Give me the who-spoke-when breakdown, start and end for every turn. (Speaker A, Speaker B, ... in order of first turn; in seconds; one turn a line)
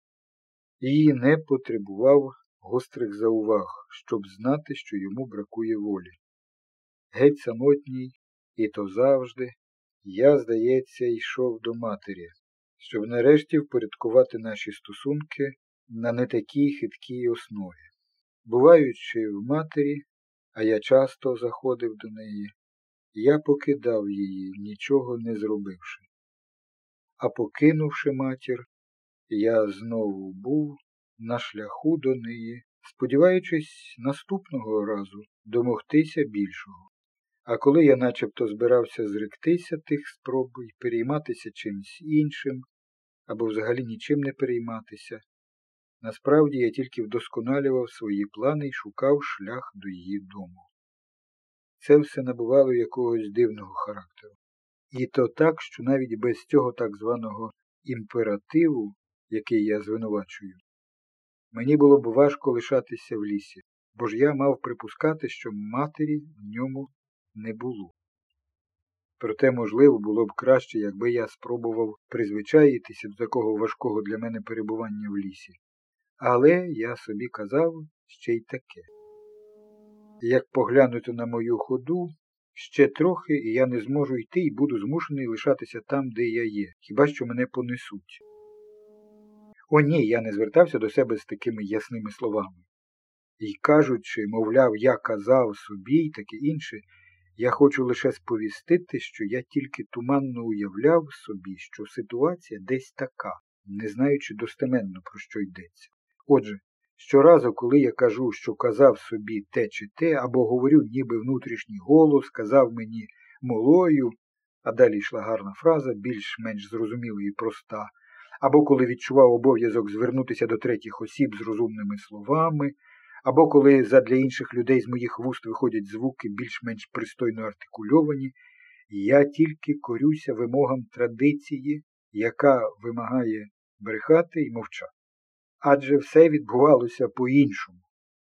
Speaker A: 0.8-6.2
Speaker A: 7.1-17.9
Speaker A: 18.4-22.5
Speaker A: 23.1-26.1
Speaker A: 27.2-28.7
Speaker A: 29.3-36.9
Speaker A: 37.5-42.6
Speaker A: 43.3-45.2
Speaker A: 46.0-50.7
Speaker A: 51.8-54.4
Speaker A: 54.9-60.6
Speaker A: 61.5-67.9
Speaker A: 69.2-75.6
Speaker A: 76.2-78.9
Speaker A: 80.2-88.2
Speaker A: 89.7-92.7
Speaker A: 93.4-96.8
Speaker A: 97.4-128.3
Speaker A: 128.9-134.9
Speaker A: 135.6-137.8